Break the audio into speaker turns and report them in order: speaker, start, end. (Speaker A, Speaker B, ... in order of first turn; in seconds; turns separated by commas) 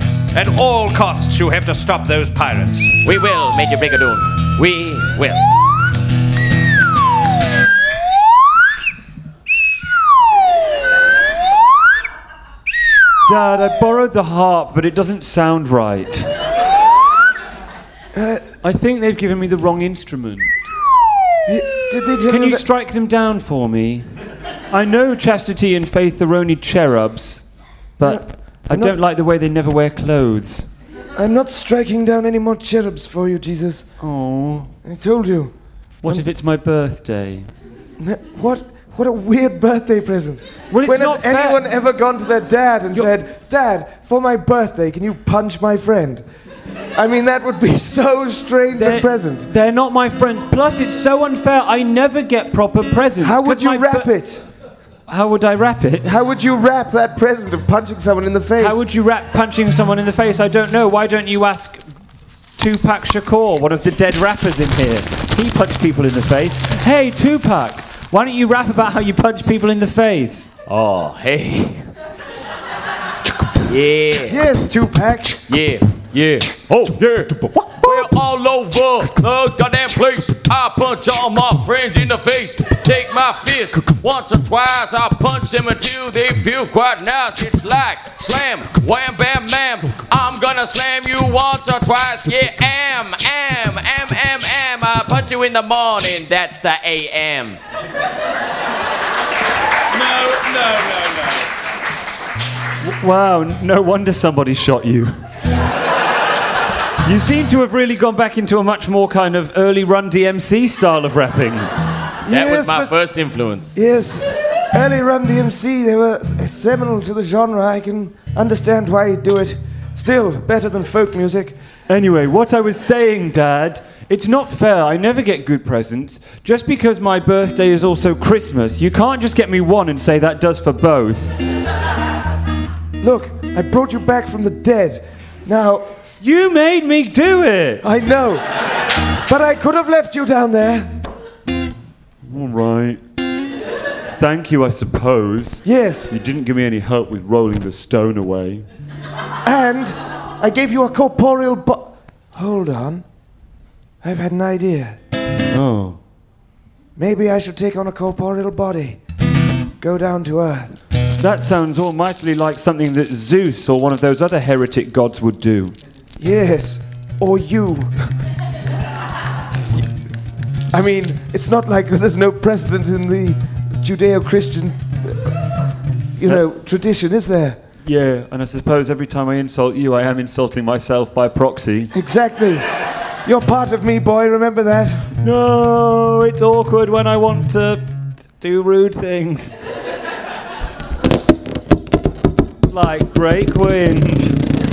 Speaker A: 0.3-2.9, Speaker B: 3.0-5.4, Speaker C: 13.2-16.3, Speaker D: 18.1-18.5, Speaker C: 18.6-20.5, Speaker D: 21.4-22.6, Speaker C: 22.3-24.1, Speaker C: 24.7-27.4, Speaker C: 28.0-30.7, Speaker D: 28.0-29.0, Speaker D: 31.1-33.9, Speaker C: 34.0-34.7, Speaker D: 34.8-35.5, Speaker C: 36.0-37.5, Speaker D: 38.0-46.2, Speaker C: 40.7-41.6, Speaker D: 46.9-49.5, Speaker C: 48.8-54.1, Speaker D: 53.2-54.4, Speaker C: 55.1-56.1, Speaker D: 56.0-58.8, Speaker C: 58.6-61.8, Speaker C: 62.6-70.5, Speaker B: 70.7-71.8, Speaker B: 73.6-74.4, Speaker D: 74.2-75.4, Speaker B: 75.5-97.6, Speaker C: 76.7-77.0, Speaker A: 99.9-101.4, Speaker C: 102.8-105.2, Speaker C: 107.0-111.7, Speaker D: 112.2-112.9, Speaker B: 112.3-113.8, Speaker D: 113.7-121.5, Speaker C: 121.9-131.3, Speaker D: 133.0-135.9, Speaker C: 136.2-137.8, Speaker D: 137.8-138.4, Speaker D: 139.3-140.9, Speaker C: 142.2-143.0, Speaker C: 144.1-148.6, Speaker D: 145.6-146.1, Speaker D: 149.4-153.0, Speaker D: 154.0-155.0, Speaker C: 155.5-156.0, Speaker D: 157.0-159.0, Speaker D: 159.8-160.8, Speaker C: 161.2-165.7, Speaker D: 166.2-167.9, Speaker D: 170.7-175.2, Speaker D: 176.2-177.6, Speaker C: 177.8-181.9, Speaker D: 181.9-182.7, Speaker D: 183.2-185.1, Speaker C: 185.2-189.5, Speaker C: 192.7-194.4